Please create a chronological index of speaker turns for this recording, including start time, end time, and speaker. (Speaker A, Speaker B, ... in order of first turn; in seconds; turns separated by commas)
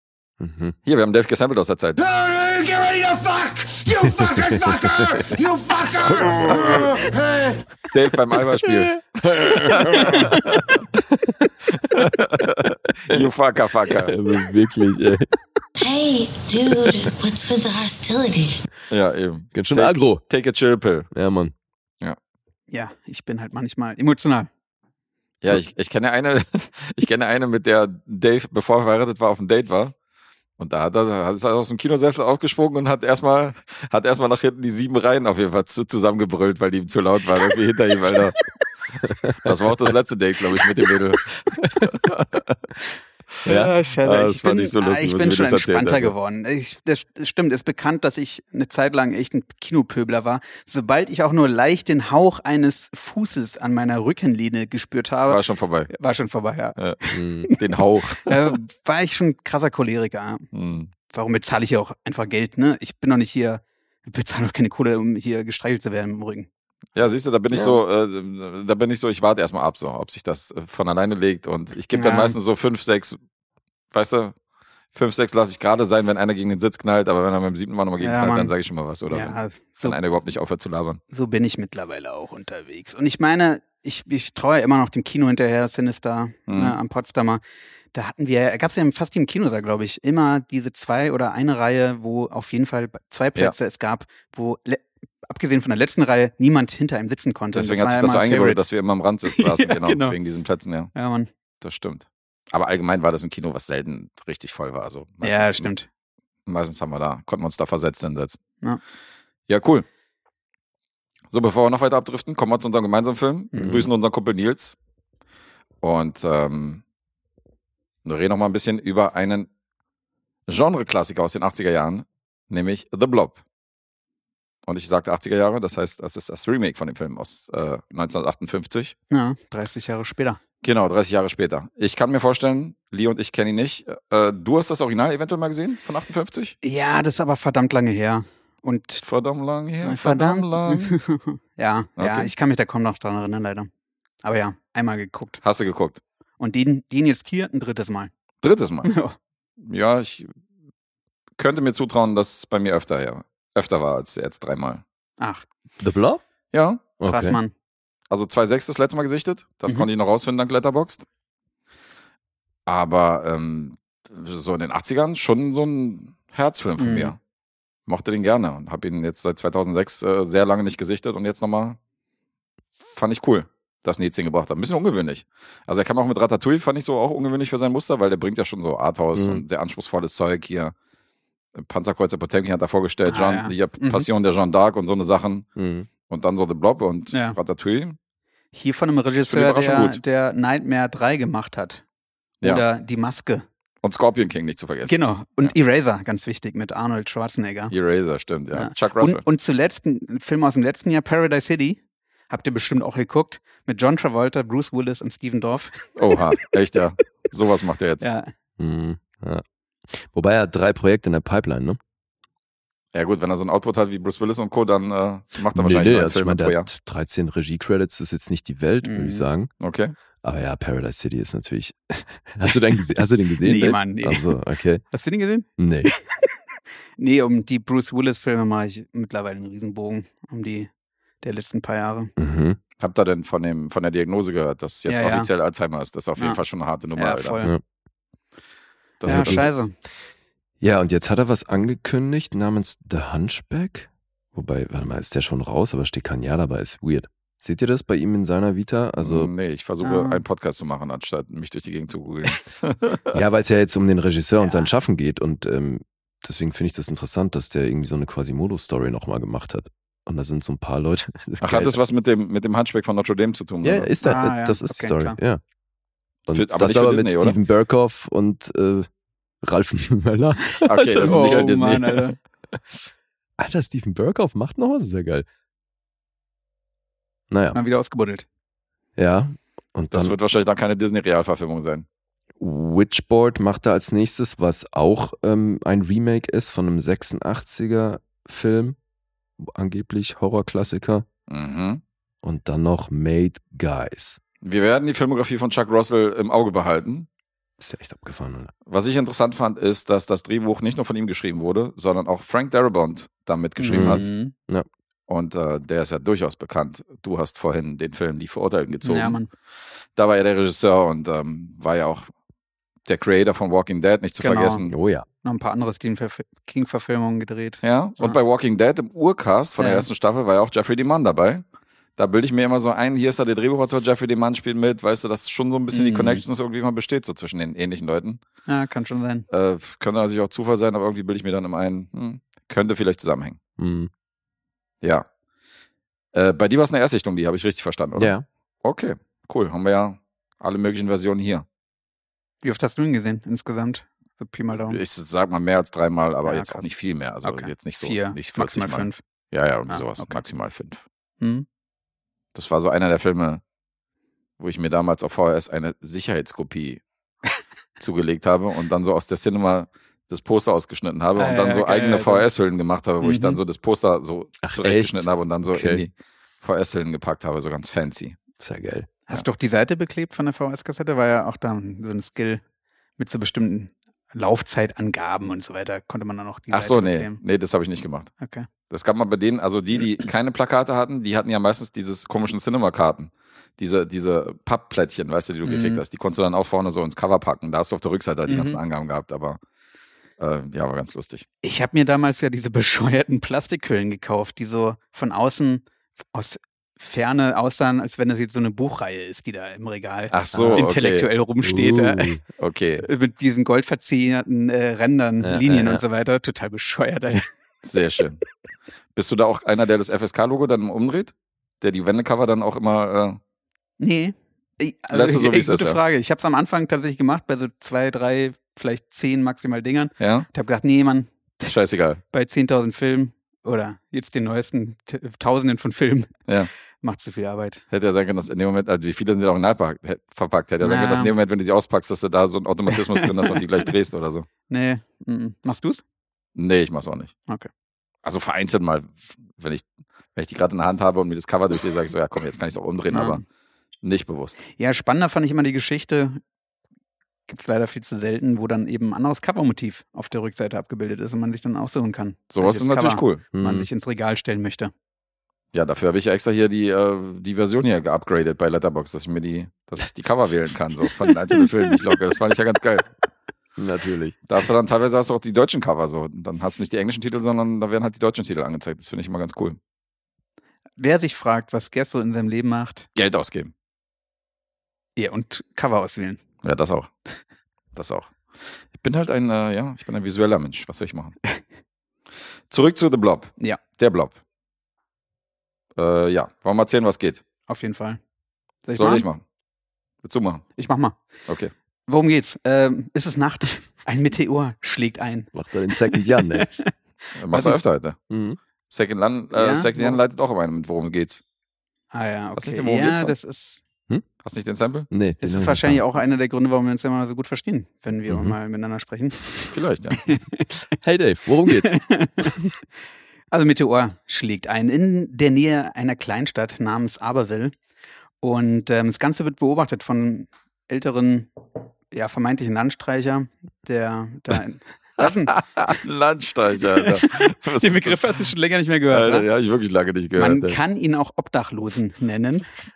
Speaker A: 0.4-0.8, Speaker B: 0.8-2.0, Speaker C: 2.0-7.6, Speaker A: 4.0-5.3, Speaker B: 6.2-7.0, Speaker B: 7.9-10.8, Speaker A: 9.2-10.3, Speaker B: 11.8-14.1, Speaker A: 13.9-15.3, Speaker D: 15.8-18.6, Speaker B: 18.9-21.1, Speaker A: 19.5-20.2, Speaker A: 21.1-21.5, Speaker E: 22.7-24.5, Speaker B: 25.4-29.9, Speaker B: 30.6-38.4, Speaker A: 39.0-39.5, Speaker B: 39.4-42.6, Speaker A: 41.6-41.9, Speaker E: 43.4-57.5, Speaker B: 44.0-46.1, Speaker B: 55.3-55.9, Speaker A: 57.1-57.5, Speaker B: 57.5-58.5, Speaker E: 58.2-60.5, Speaker B: 60.5-60.9, Speaker E: 61.1-66.5, Speaker B: 66.9-73.2, Speaker A: 67.5-67.8, Speaker E: 71.9-72.3, Speaker B: 73.9-74.3, Speaker B: 74.9-81.0, Speaker E: 78.0-78.5, Speaker E: 79.1-80.0, Speaker E: 81.1-87.4, Speaker B: 86.5-86.8, Speaker E: 87.9-98.6, Speaker B: 97.5-100.9, Speaker E: 99.3-100.2, Speaker E: 100.9-101.3, Speaker B: 101.6-105.7, Speaker E: 105.2-105.9, Speaker B: 106.5-108.4, Speaker B: 109.5-109.8, Speaker B: 111.3-114.8, Speaker E: 113.5-113.9, Speaker B: 115.8-116.8, Speaker B: 118.0-119.5, Speaker B: 120.5-123.4, Speaker B: 124.7-128.9, Speaker E: 129.1-130.4, Speaker B: 130.6-136.6, Speaker E: 136.6-139.0, Speaker B: 139.0-141.0, Speaker E: 139.8-143.7, Speaker B: 142.0-142.3, Speaker E: 144.2-145.4, Speaker B: 145.4-146.0, Speaker E: 146.4-148.1, Speaker B: 148.4-148.9, Speaker E: 148.8-149.1, Speaker B: 149.6-150.3, Speaker B: 151.4-154.8, Speaker E: 155.2-155.4, Speaker A: 155.8-156.2, Speaker B: 156.5-156.9, Speaker A: 157.0-157.4, Speaker E: 157.0-157.5, Speaker B: 158.1-161.0, Speaker B: 162.7-167.2, Speaker E: 166.8-167.1, Speaker B: 167.8-171.8, Speaker B: 172.9-180.7, Speaker A: 179.1-179.4, Speaker B: 181.5-185.5, Speaker E: 183.1-184.1, Speaker A: 185.6-185.9, Speaker B: 186.1-187.9, Speaker E: 187.1-187.4, Speaker E: 188.5-191.8, Speaker B: 189.2-190.0, Speaker E: 192.4-193.4, Speaker B: 193.8-195.5, Speaker E: 194.8-197.7, Speaker B: 197.7-199.2, Speaker E: 198.5-206.2, Speaker B: 206.0-208.1, Speaker E: 208.0-208.3, Speaker A: 208.6-211.8, Speaker B: 212.9-216.7, Speaker A: 215.5-219.5, Speaker E: 218.8-219.2, Speaker B: 219.6-219.9, Speaker A: 220.2-224.8, Speaker E: 223.4-224.4, Speaker E: 224.9-225.9, Speaker A: 225.6-225.9, Speaker E: 227.0-230.7, Speaker E: 231.2-232.1, Speaker A: 232.2-232.6, Speaker B: 232.8-237.4, Speaker E: 234.9-235.3, Speaker E: 236.9-237.5, Speaker B: 239.0-239.7, Speaker E: 239.0-239.7, Speaker A: 239.1-239.5, Speaker A: 240.6-249.3, Speaker B: 249.0-253.2, Speaker E: 249.8-250.2, Speaker A: 253.1-261.8, Speaker E: 254.4-254.7, Speaker B: 261.4-263.9, Speaker A: 263.6-265.4, Speaker E: 264.0-265.2, Speaker A: 266.3-268.9, Speaker B: 266.3-267.4, Speaker A: 269.4-271.6, Speaker B: 270.6-272.1, Speaker E: 271.0-272.2, Speaker A: 273.4-275.2, Speaker A: 277.3-277.6, Speaker E: 277.5-278.2, Speaker A: 279.0-280.1, Speaker B: 279.9-281.8, Speaker A: 282.4-288.8, Speaker A: 289.4-291.1, Speaker B: 291.3-291.8, Speaker A: 292.2-294.2, Speaker B: 294.4-297.1, Speaker A: 297.6-298.5, Speaker B: 298.7-304.1, Speaker E: 303.6-304.3, Speaker A: 303.7-304.6, Speaker B: 305.1-309.2, Speaker E: 308.8-309.3, Speaker B: 309.9-312.1, Speaker B: 312.9-314.7, Speaker E: 314.2-314.6, Speaker A: 314.7-315.1, Speaker E: 315.2-318.2, Speaker B: 317.6-321.4, Speaker E: 319.6-319.9, Speaker B: 322.0-328.2, Speaker E: 325.7-326.2, Speaker E: 328.5-329.3, Speaker B: 329.3-333.4, Speaker A: 333.6-333.9, Speaker B: 336.1-341.4, Speaker A: 338.0-338.2, Speaker E: 342.4-344.8, Speaker B: 344.7-350.8, Speaker E: 346.2-346.7, Speaker E: 347.2-349.0, Speaker E: 349.7-350.2, Speaker E: 351.2-351.4, Speaker B: 352.3-353.4, Speaker B: 354.4-356.8, Speaker B: 357.8-368.2, Speaker E: 361.2-362.3, Speaker E: 363.0-363.4, Speaker A: 364.4-365.8, Speaker A: 368.4-368.9, Speaker E: 369.1-372.4, Speaker E: 373.0-377.2, Speaker B: 376.5-378.1, Speaker E: 378.2-378.5, Speaker B: 378.7-389.4, Speaker E: 385.4-385.8, Speaker E: 388.3-388.6, Speaker B: 390.2-391.2, Speaker E: 391.4-402.2, Speaker B: 400.1-401.1, Speaker A: 401.4-402.2, Speaker B: 402.4-402.9, Speaker E: 402.8-407.2, Speaker A: 405.2-405.8, Speaker B: 407.6-408.2, Speaker B: 408.9-413.2, Speaker E: 413.8-421.5, Speaker B: 414.9-415.8, Speaker B: 420.0-420.3, Speaker B: 421.5-422.0, Speaker E: 422.1-426.1, Speaker E: 426.8-427.6, Speaker B: 427.7-434.3, Speaker E: 430.6-431.1, Speaker E: 432.7-433.4, Speaker E: 434.5-435.8, Speaker B: 436.4-437.1, Speaker B: 438.0-443.2, Speaker E: 442.9-443.2, Speaker B: 443.8-444.4, Speaker E: 444.5-446.2, Speaker E: 447.3-454.7, Speaker B: 452.3-453.2, Speaker A: 453.3-453.7, Speaker B: 455.5-462.9, Speaker A: 463.6-464.1, Speaker B: 464.3-469.6, Speaker E: 470.8-472.9, Speaker B: 472.9-473.5, Speaker E: 475.0-476.2, Speaker B: 476.4-476.9, Speaker B: 477.7-478.1, Speaker B: 478.7-481.1, Speaker B: 482.5-484.1, Speaker B: 485.8-487.2, Speaker E: 487.5-488.0, Speaker E: 488.6-489.1, Speaker B: 488.8-489.2, Speaker B: 490.0-490.5, Speaker E: 490.6-491.0, Speaker B: 491.3-491.5, Speaker E: 491.9-496.7, Speaker A: 495.3-496.5, Speaker B: 497.1-498.0, Speaker E: 497.3-497.6, Speaker A: 498.1-498.4, Speaker B: 498.7-501.2, Speaker E: 499.3-500.0, Speaker E: 501.9-503.6, Speaker B: 502.4-503.1, Speaker B: 504.2-504.9, Speaker A: 504.9-505.8, Speaker E: 505.2-509.5, Speaker A: 508.1-508.4, Speaker B: 509.5-510.0, Speaker E: 510.1-510.4, Speaker A: 510.8-511.8, Speaker E: 511.6-512.4, Speaker E: 513.3-517.5, Speaker E: 518.2-521.3, Speaker E: 521.9-525.7, Speaker B: 525.0-528.2, Speaker E: 526.8-529.3, Speaker B: 528.9-530.6, Speaker E: 530.2-532.5